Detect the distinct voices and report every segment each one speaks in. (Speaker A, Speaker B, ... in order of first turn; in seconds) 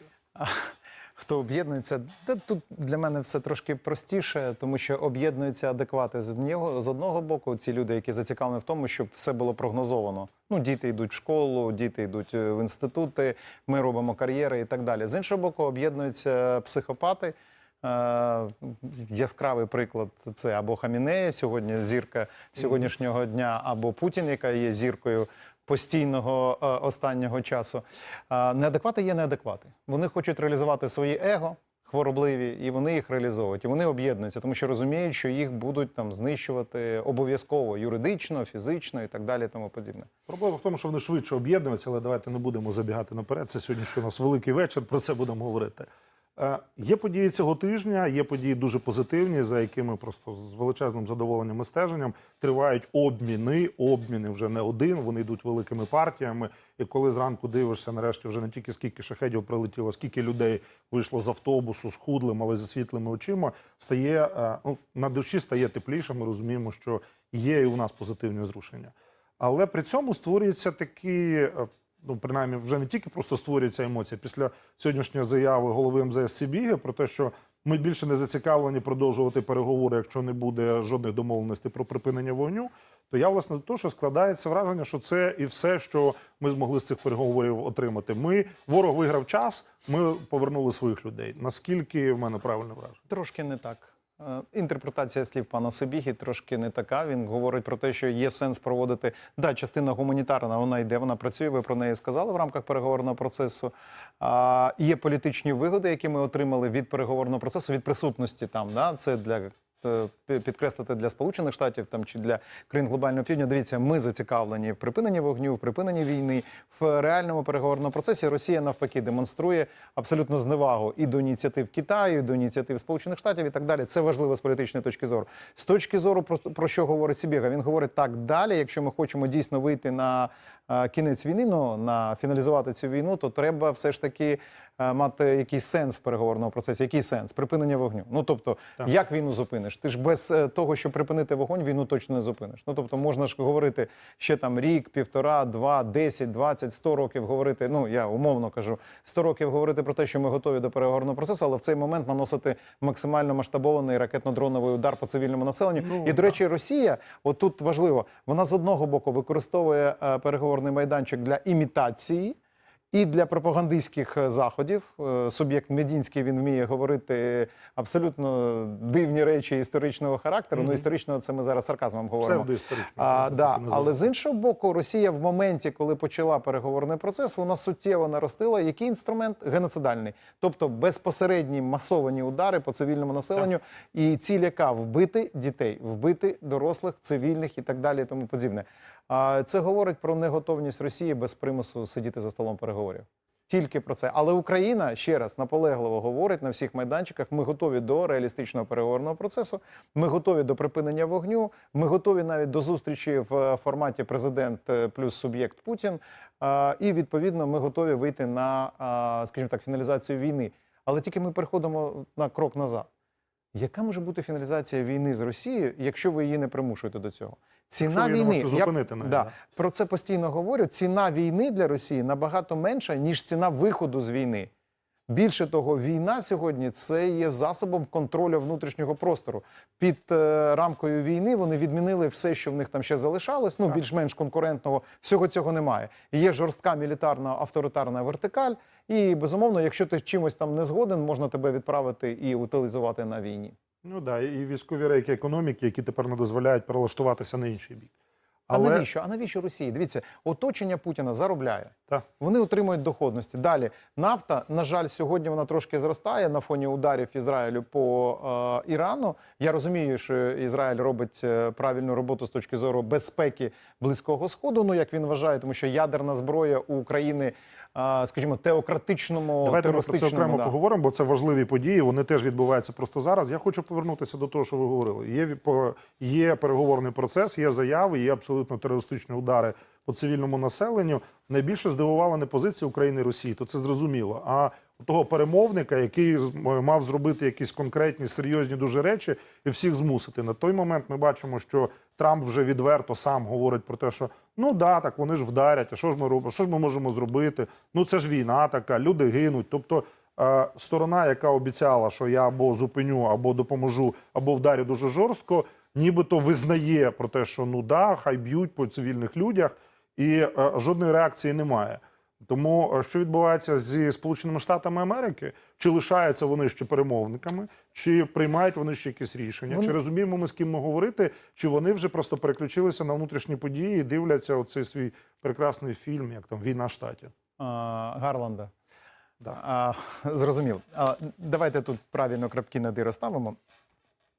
Speaker A: 0.3-40.1, 93.1-162.4, 162.9-212.9, 213.5-224.5, 225.1-243.6, 248.5-270.6, 319.5-319.8, 327.4-328.5, 329.3-333.4
Speaker B: 40.3-93.0, 155.8-156.4, 170.6-170.9, 172.2-174.1, 217.8-219.3, 243.8-247.9, 248.5-248.8, 269.4-327.1